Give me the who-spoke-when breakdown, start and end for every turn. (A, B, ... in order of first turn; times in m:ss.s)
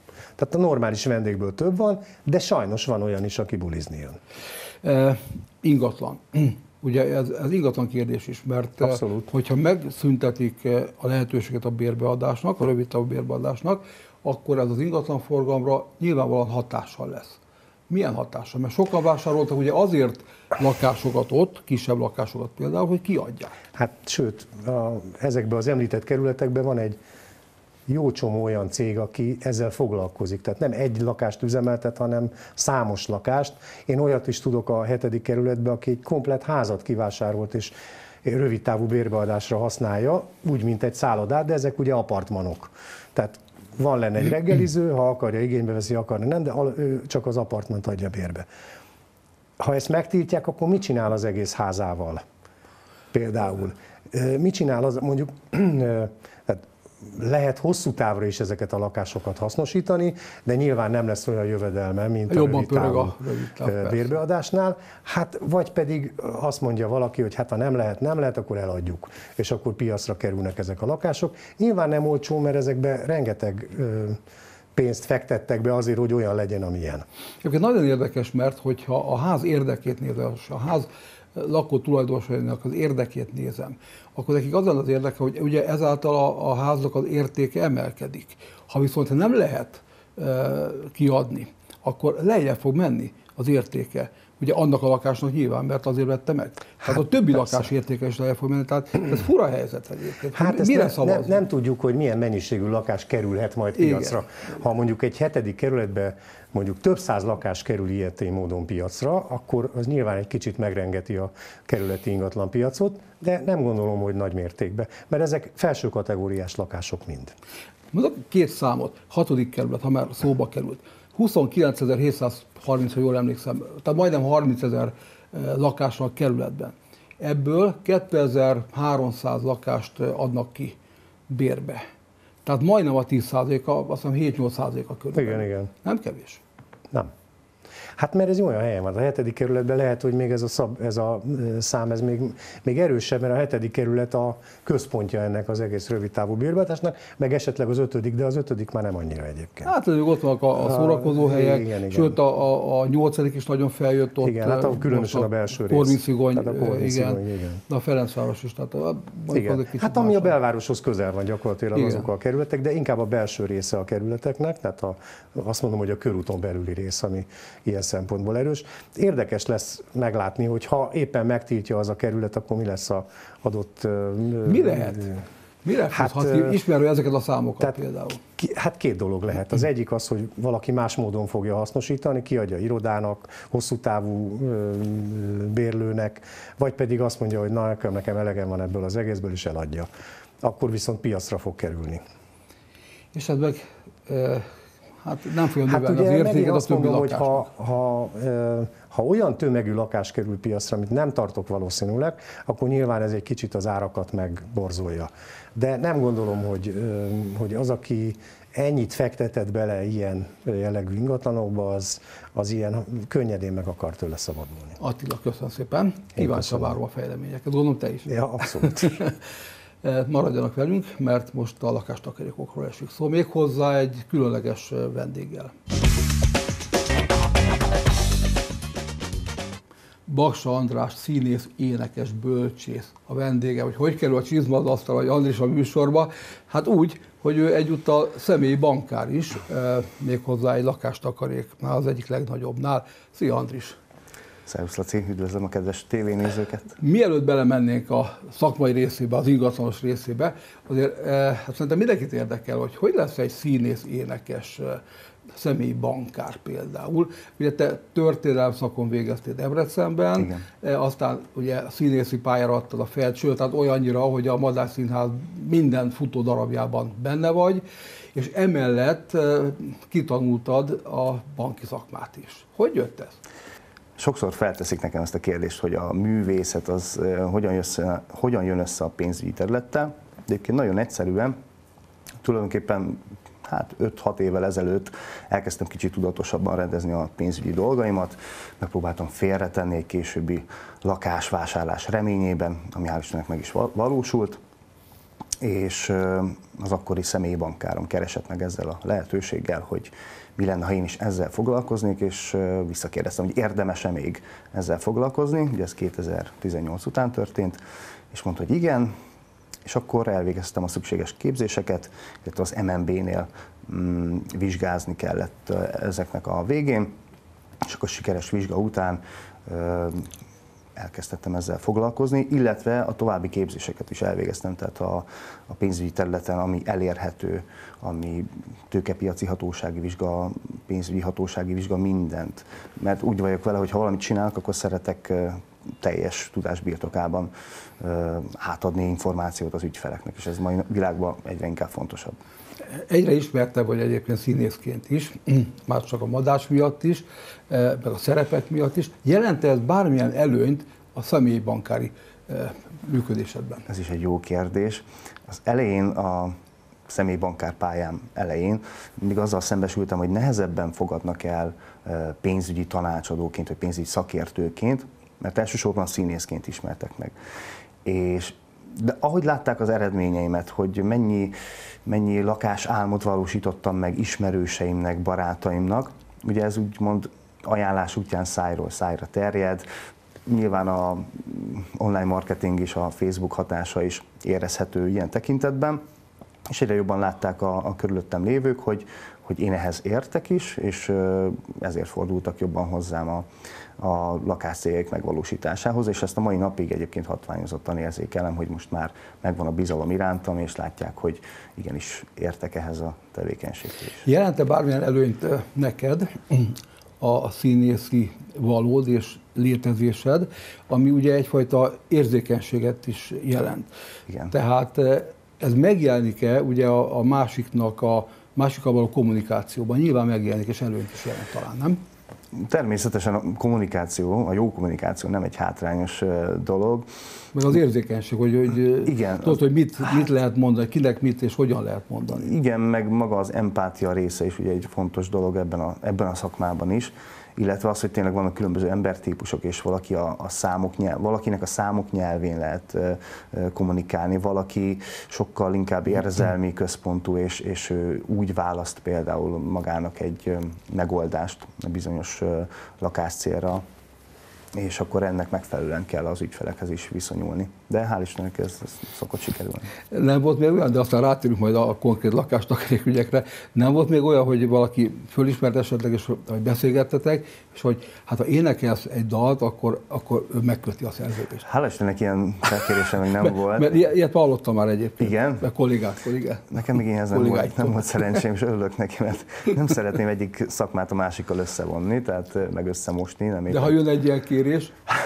0:00.4-0:04.2 A
0:04.8-0:23.5 B
0:08.8-0:09.3 A
0:23.8-0:27.0 A
0:27.9-0:37.7 A
0:38.2-0:48.5 A
0:49.6-0:52.2 A
0:53.1-1:14.2 A
1:02.3-1:04.2 B
1:14.7-1:17.0 A
1:17.4-1:41.4 B
1:40.3-1:57.3 A
1:43.8-1:44.2 B
1:57.9-2:10.8 B
2:11.3-2:11.8 B
2:12.4-2:16.4 B
2:15.1-2:15.7 A
2:18.0-2:29.7 A
2:29.6-2:40.4 B
2:30.6-2:32.2 A
2:34.2-2:37.6 A
2:39.3-2:55.2 A
2:41.7-2:42.0 B
2:54.4-2:58.2 B
2:55.9-2:56.6 A
2:58.4-3:09.9 A
3:10.4-3:12.0 A
3:13.1-3:14.5 B
3:15.0-3:17.5 B
3:15.7-3:34.8 A
3:34.8-3:39.2 B
3:36.2-3:36.8 A
3:38.1-3:39.0 A
3:39.8-3:45.5 B
3:50.1-4:03.8 B
4:04.5-4:06.8 C
4:06.8-4:14.8 B
4:15.3-4:27.6 B
4:28.1-4:33.2 B
4:34.0-4:41.4 C
4:42.2-4:54.4 C
4:55.4-5:07.6 C
5:08.1-5:08.9 C
5:09.6-5:16.9 C
5:17.6-5:20.1 C
5:20.8-5:42.2 C
5:42.6-5:53.6 B
5:53.7-5:56.4 C
5:56.9-6:07.1 C
6:07.8-6:11.3 C
6:11.8-6:19.6 C
6:20.2-6:25.8 C
6:26.5-6:33.3 C
6:33.8-6:44.0 C
6:44.0-6:53.7 B
6:54.3-7:01.8 B
7:02.3-7:06.9 C
7:07.3-7:12.3 B
7:08.8-7:10.0 C
7:12.1-7:33.6 C
7:34.5-7:39.7 C
7:39.9-7:51.4 B
7:51.4-7:53.8 C
7:53.2-7:56.6 B
7:55.0-7:55.4 C
7:56.5-8:03.8 C
7:57.1-7:57.9 B
8:03.5-8:04.8 B